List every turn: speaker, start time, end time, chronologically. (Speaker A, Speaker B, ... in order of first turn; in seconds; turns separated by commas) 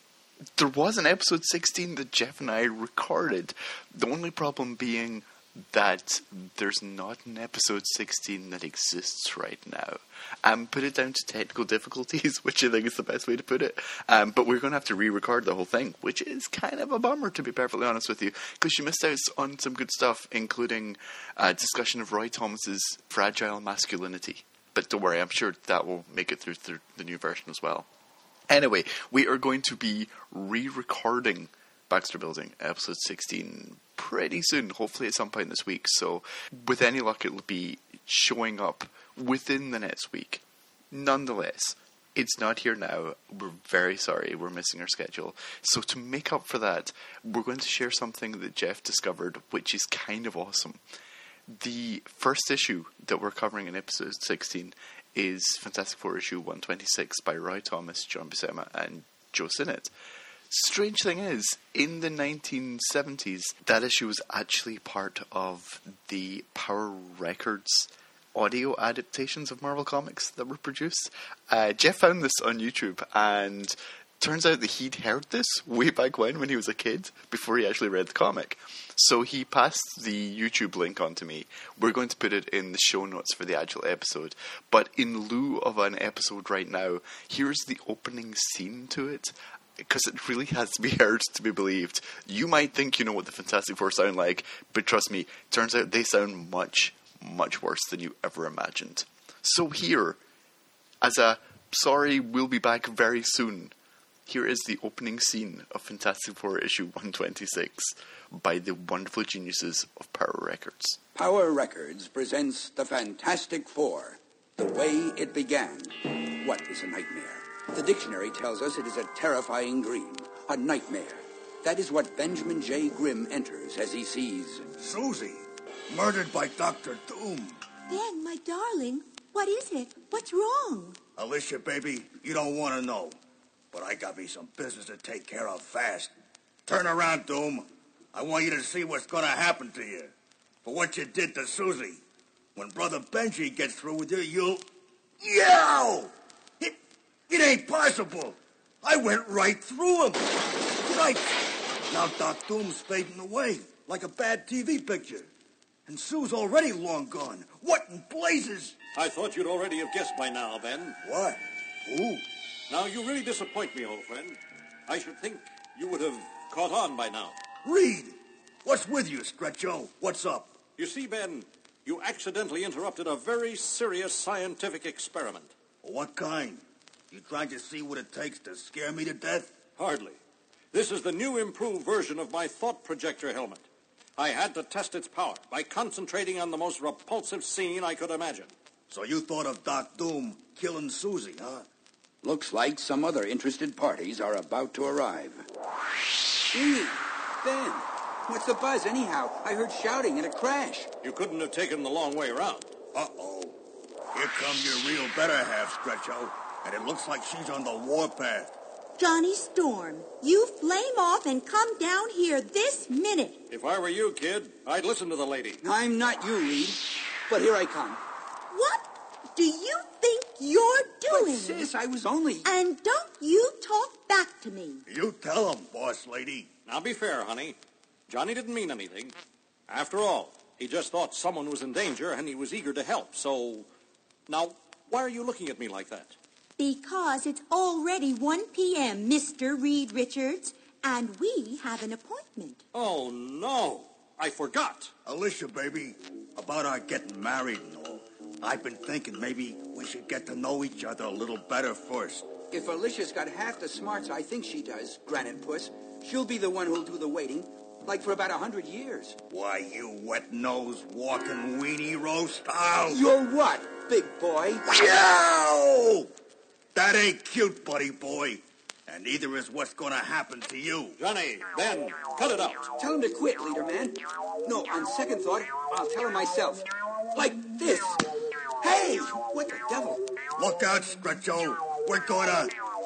Speaker A: 0.6-27.9, Speaker A: 28.5-50.8, Speaker A: 51.5-59.9, Speaker A: 60.5-100.2, Speaker A: 101.0-103.7, Speaker A: 104.3-111.0, Speaker B: 111.2-124.7, Speaker C: 124.8-127.6, Speaker D: 127.9-131.0, Speaker C: 131.2-133.2, Speaker C: 133.7-136.1, Speaker C: 136.7-142.0, Speaker C: 142.6-144.6, Speaker C: 145.2-146.8, Speaker C: 147.3-155.3, Speaker C: 155.9-158.8, Speaker E: 158.9-161.0, Speaker C: 161.0-162.2, Speaker E: 162.7-167.3, Speaker C: 167.7-170.6, Speaker E: 170.8-175.5, Speaker C: 175.8-179.5, Speaker E: 179.8-180.2, Speaker E: 180.7-183.7, Speaker E: 184.2-188.5, Speaker C: 188.9-191.7, Speaker B: 192.2-195.5, Speaker B: 196.5-200.9, Speaker E: 201.0-202.7, Speaker C: 202.9-203.6, Speaker C: 204.1-208.6, Speaker D: 209.0-213.4, Speaker E: 213.5-215.6, Speaker B: 215.6-218.0, Speaker D: 218.5-221.7, Speaker B: 221.1-222.5, Speaker D: 222.4-224.8, Speaker C: 224.9-226.5, Speaker E: 226.7-229.2, Speaker E: 229.7-233.7, Speaker E: 234.3-236.2, Speaker D: 236.6-242.6, Speaker E: 242.7-244.9, Speaker C: 245.1-252.3, Speaker B: 252.5-259.2, Speaker C: 259.3-263.0, Speaker B: 262.9-264.7, Speaker C: 264.7-266.1, Speaker C: 266.8-271.0, Speaker E: 271.0-272.6, Speaker B: 272.8-280.0, Speaker C: 280.4-282.6